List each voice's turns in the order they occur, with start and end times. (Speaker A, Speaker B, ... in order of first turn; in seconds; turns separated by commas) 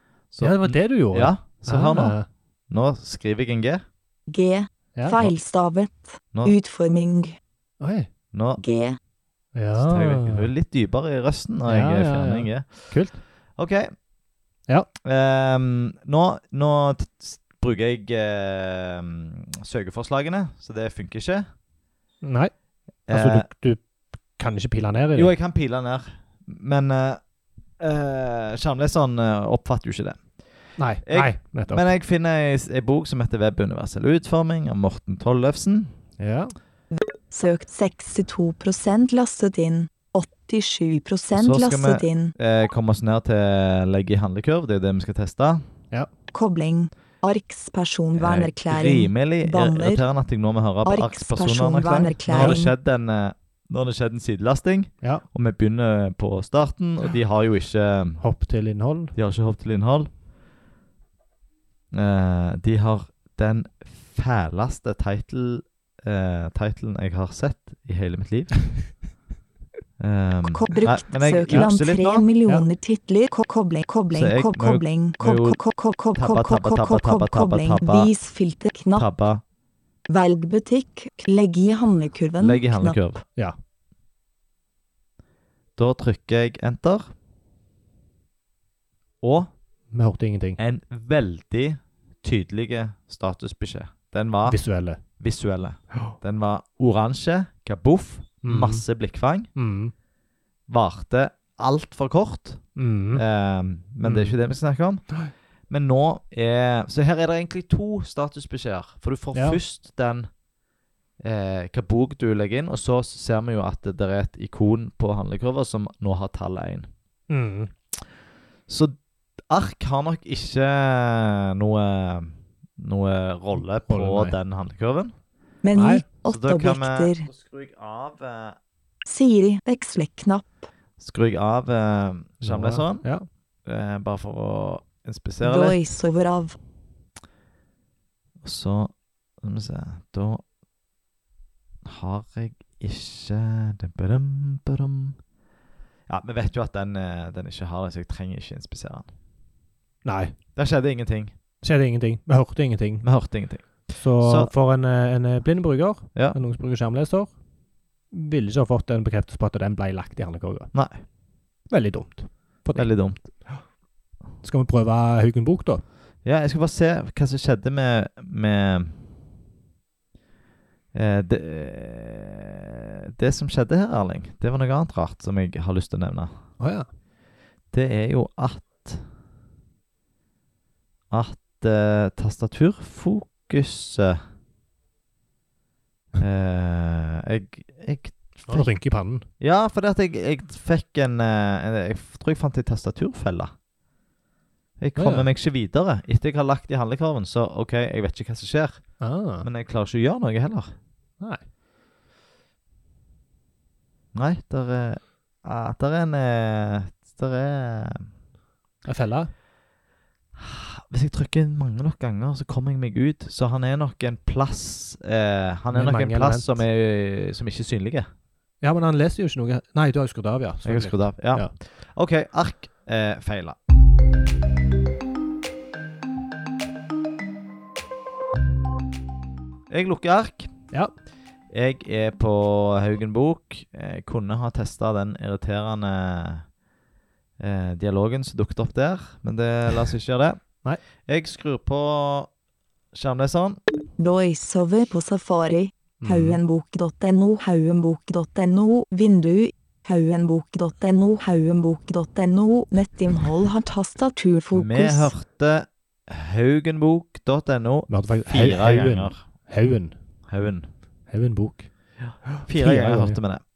Speaker A: 0.3-2.2, Speaker B: 0.4-2.3, Speaker A: 2.7-3.8, Speaker C: 4.3-7.4, Speaker B: 5.0-5.3, Speaker B: 7.8-8.1, Speaker A: 8.3-8.6, Speaker C: 8.6-9.0, Speaker B: 9.6-10.5, Speaker A: 9.8-13.0, Speaker B: 11.7-13.2, Speaker A: 13.6-13.9, Speaker A: 15.1-21.5, Speaker B: 22.2-22.5, Speaker A: 23.1-23.5, Speaker B: 23.1-23.9, Speaker B: 24.4-25.3, Speaker A: 25.1-27.2, Speaker A: 27.8-30.2, Speaker B: 30.8-31.9, Speaker A: 31.1-35.9, Speaker B: 36.2-36.5, Speaker C: 36.9-42.3, Speaker A: 41.4-45.6, Speaker C: 46.3-50.0, Speaker A: 48.2-58.2, Speaker C: 50.9-52.7, Speaker B: 52.3-52.6, Speaker B: 58.2-59.1, Speaker A: 59.1-60.1, Speaker A: 61.9-68.6, Speaker A: 70.0-72.3, Speaker C: 70.5-79.1, Speaker A: 74.1-75.6, Speaker A: 76.2-78.1, Speaker A: 79.0-79.4, Speaker C: 80.1-83.0, Speaker A: 82.4-83.2, Speaker A: 85.8-87.1, Speaker A: 89.2-89.5, Speaker B: 89.9-90.6, Speaker A: 90.6-94.6, Speaker B: 94.5-95.0, Speaker A: 95.2-99.5, Speaker B: 98.4-98.8, Speaker B: 99.6-99.9, Speaker A: 100.7-102.6, Speaker B: 102.8-103.2, Speaker A: 103.1-105.0, Speaker B: 104.0-104.3, Speaker A: 105.7-110.3, Speaker B: 109.3-109.6, Speaker A: 111.2-116.9, Speaker B: 117.3-117.7, Speaker A: 118.7-119.0, Speaker A: 119.5-125.1, Speaker B: 123.8-124.4, Speaker C: 125.6-127.3, Speaker B: 125.8-126.0, Speaker A: 126.3-128.6, Speaker C: 129.1-130.7, Speaker A: 131.0-133.1, Speaker B: 132.4-133.3, Speaker A: 133.7-135.8, Speaker C: 135.4-136.6, Speaker A: 138.4-140.4, Speaker A: 141.8-145.2, Speaker A: 146.1-149.1, Speaker B: 150.0-150.3, Speaker A: 150.6-151.3, Speaker B: 151.6-153.1, Speaker A: 153.0-154.5, Speaker B: 154.0-157.3, Speaker B: 158.1-160.7, Speaker A: 160.7-161.0, Speaker B: 161.7-162.9, Speaker A: 162.7-163.3, Speaker B: 164.4-165.8, Speaker A: 166.2-169.0, Speaker A: 170.9-176.3, Speaker B: 176.6-176.9, Speaker A: 177.7-179.0, Speaker A: 181.1-184.2, Speaker A: 186.2-188.7, Speaker B: 188.5-189.2, Speaker A: 189.4-193.5, Speaker A: 194.8-198.8, Speaker B: 195.0-195.3, Speaker B: 199.0-199.5, Speaker A: 199.4-200.7, Speaker A: 204.2-208.1, Speaker B: 208.8-209.3, Speaker A: 210.4-218.1, Speaker B: 215.7-216.6, Speaker B: 218.6-221.5, Speaker A: 220.6-223.6, Speaker A: 229.7-230.5, Speaker A: 231.5-236.5, Speaker A: 237.4-240.4, Speaker A: 241.1-242.3, Speaker A: 242.9-243.6, Speaker C: 244.0-255.1, Speaker B: 246.0-246.4, Speaker A: 254.5-259.2, Speaker B: 257.9-259.9, Speaker A: 260.3-260.7, Speaker B: 261.1-261.7, Speaker A: 262.4-263.4, Speaker B: 262.5-263.2